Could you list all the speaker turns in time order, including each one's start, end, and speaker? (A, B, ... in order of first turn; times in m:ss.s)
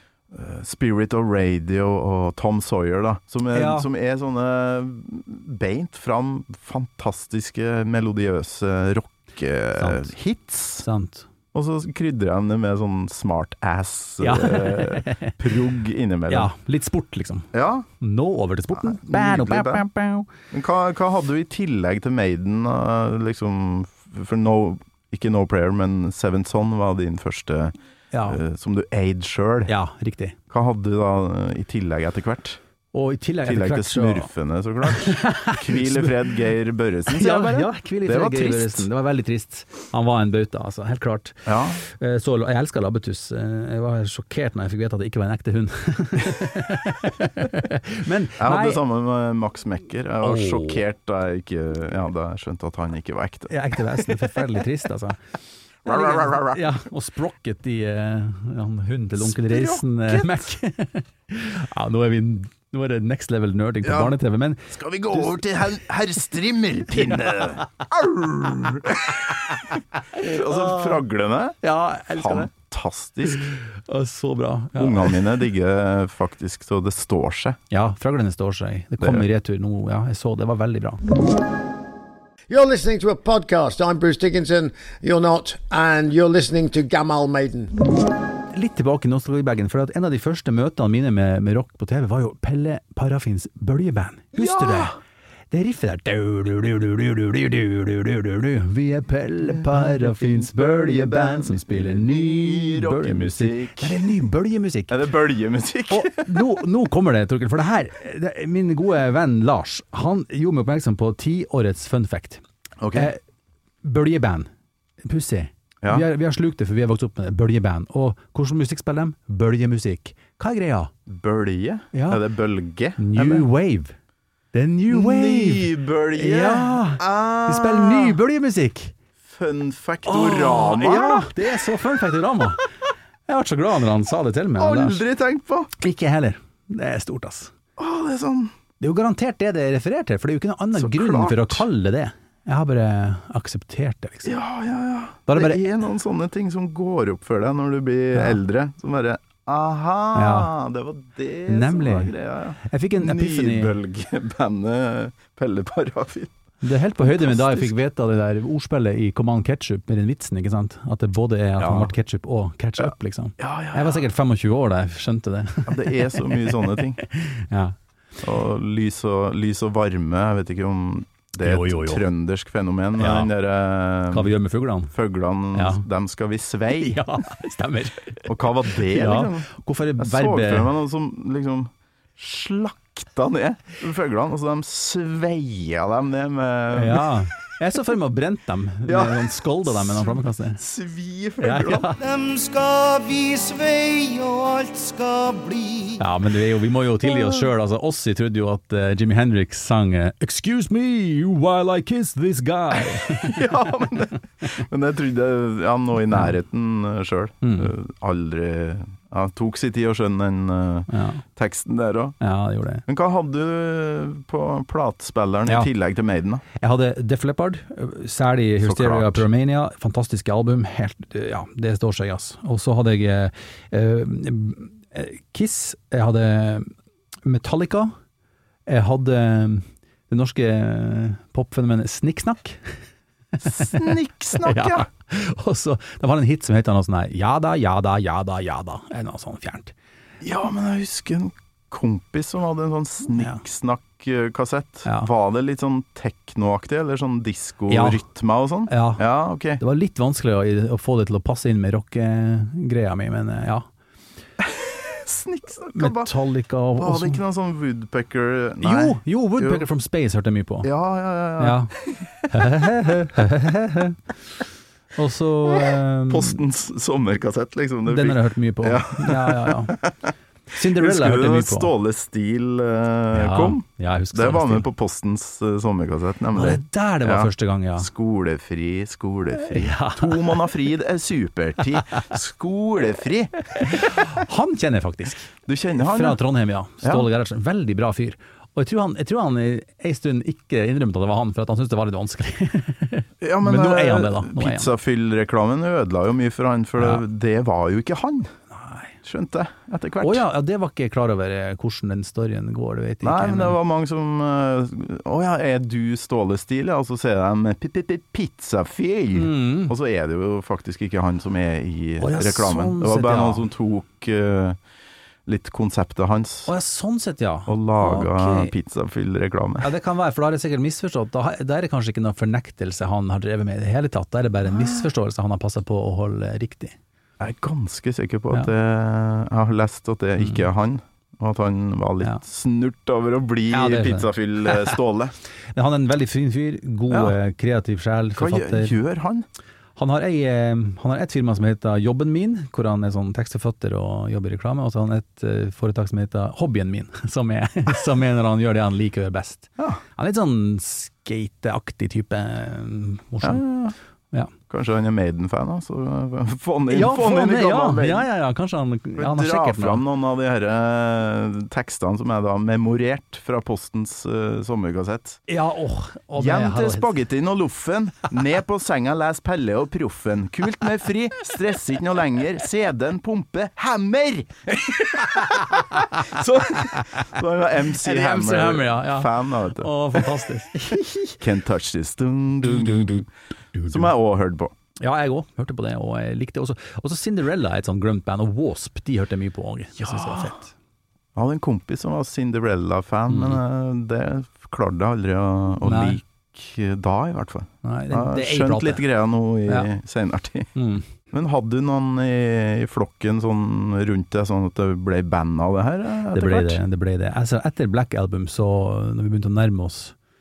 0:00.3-0:10.8 A
0:03.5-0:03.9 B
0:09.8-0:10.1 B
0:10.8-0:11.3 B
0:11.5-0:16.5 A
0:14.2-0:15.4 B
0:16.3-0:17.5 B
0:17.5-0:17.8 A
0:18.0-0:20.3 B
0:18.7-0:19.8 A
0:20.5-0:29.7 A
0:28.1-0:28.4 B
0:29.7-0:30.4 B
0:30.5-0:32.6 A
0:32.9-0:34.3 B
0:33.4-0:38.9 A
0:34.9-0:36.4 B
0:37.1-0:48.8 B
0:41.4-0:41.8 A
0:48.4-0:54.6 A
0:50.2-0:50.8 B
0:53.5-0:55.2 B
0:55.8-0:56.7 A
0:55.8-1:05.4 B
0:59.2-1:00.5 A
1:03.8-1:09.4 A
1:09.7-1:11.0 B
1:10.1-1:11.6 A
1:11.6-1:12.5 B
1:12.1-1:13.5 A
1:13.3-1:15.2 B
1:14.7-1:17.6 A
1:17.7-1:21.0 B
1:19.0-1:19.2 A
1:22.5-1:27.7 C
1:28.5-1:35.0 B
1:34.4-1:35.0 A
1:35.5-1:45.0 B
1:39.4-1:44.1 A
1:44.9-1:46.4 A
1:45.9-1:53.2 B
1:52.8-1:53.1 A
1:53.8-1:54.5 B
1:55.0-2:00.9 B
2:01.1-2:03.5 A
2:01.9-2:02.2 B
2:03.0-2:04.0 B
2:04.5-2:08.9 B
2:04.9-2:08.2 A
2:09.2-2:11.3 A
2:10.0-2:12.7 B
2:13.3-2:15.0 B
2:14.6-2:15.7 A
2:15.8-2:17.5 B
2:17.8-2:18.5 A
2:18.8-2:24.3 B
2:20.7-2:21.6 A
2:24.2-2:36.3 A
2:25.3-2:25.6 B
2:30.1-2:30.5 B
2:31.5-2:33.7 B
2:36.6-2:47.8 B
2:37.0-2:37.8 A
2:41.6-2:41.9 A
2:43.4-2:44.0 A
2:45.7-2:47.0 A
2:48.2-2:54.3 A
2:51.4-2:52.0 B
2:53.0-2:53.3 B
2:54.1-2:54.9 B
2:54.9-2:57.0 A
2:55.5-2:55.8 B
2:56.8-3:00.7 B
2:58.3-3:07.1 A
3:06.7-3:10.6 B
3:08.8-3:11.9 A
3:11.4-3:12.0 B
3:12.0-3:16.0 D
3:16.0-3:23.4 B
3:22.8-3:32.2 A
3:27.4-3:27.7 B
3:30.9-3:31.2 B
3:32.2-3:32.8 B
3:32.9-3:36.4 A
3:36.6-3:46.7 B
3:38.6-3:39.2 A
3:47.2-3:47.9 B
3:48.7-3:52.8 B
3:53.4-3:59.7 B
3:53.4-3:54.9 A
4:00.2-4:09.6 A
4:03.2-4:03.4 B
4:04.8-4:05.1 B
4:07.7-4:08.0 B
4:08.7-4:13.7 B
4:14.4-4:16.1 A
4:15.7-4:17.2 B
4:16.8-4:19.6 A
4:18.6-4:20.7 B
4:20.6-4:22.2 A
4:21.4-4:21.7 B
4:22.3-4:24.0 B
4:24.9-4:26.4 B
4:25.5-4:43.9 A
4:27.8-4:29.8 B
4:30.5-4:31.7 B
4:33.1-4:34.7 B
4:36.3-4:37.9 B
4:39.5-4:40.4 B
4:43.6-4:54.7 B
4:45.4-4:46.2 A
4:53.2-4:58.3 A
4:56.8-4:57.0 B
4:58.5-4:58.9 B
4:59.0-5:00.2 A
5:00.0-5:03.6 B
5:03.0-5:14.6 A
5:09.1-5:09.7 B
5:12.0-5:13.4 B
5:15.2-5:16.5 A
5:16.5-5:18.5 B
5:17.5-5:19.7 A
5:19.6-5:26.8 B
5:24.5-5:24.9 A
5:27.2-5:35.1 A
5:33.5-5:34.8 B
5:35.5-5:38.7 B
5:36.9-5:37.2 A
5:38.2-5:39.2 A
5:39.8-5:53.4 B
5:53.2-5:53.7 A
5:54.4-5:58.1 A
5:56.7-5:59.8 B
5:59.0-6:05.2 A
6:05.3-6:07.0 B
6:06.2-6:20.0 A
6:15.1-6:17.0 B
6:17.8-6:21.0 B
6:20.8-6:23.1 A
6:23.5-6:23.9 B
6:23.7-6:24.5 A
6:24.8-6:30.5 B
6:29.8-6:30.3 A
6:31.1-6:40.5 A
6:33.1-6:33.4 B
6:35.6-6:36.0 B
6:37.6-6:38.8 B
6:40.5-6:40.9 B
6:41.1-6:46.6 A
6:46.1-6:49.9 B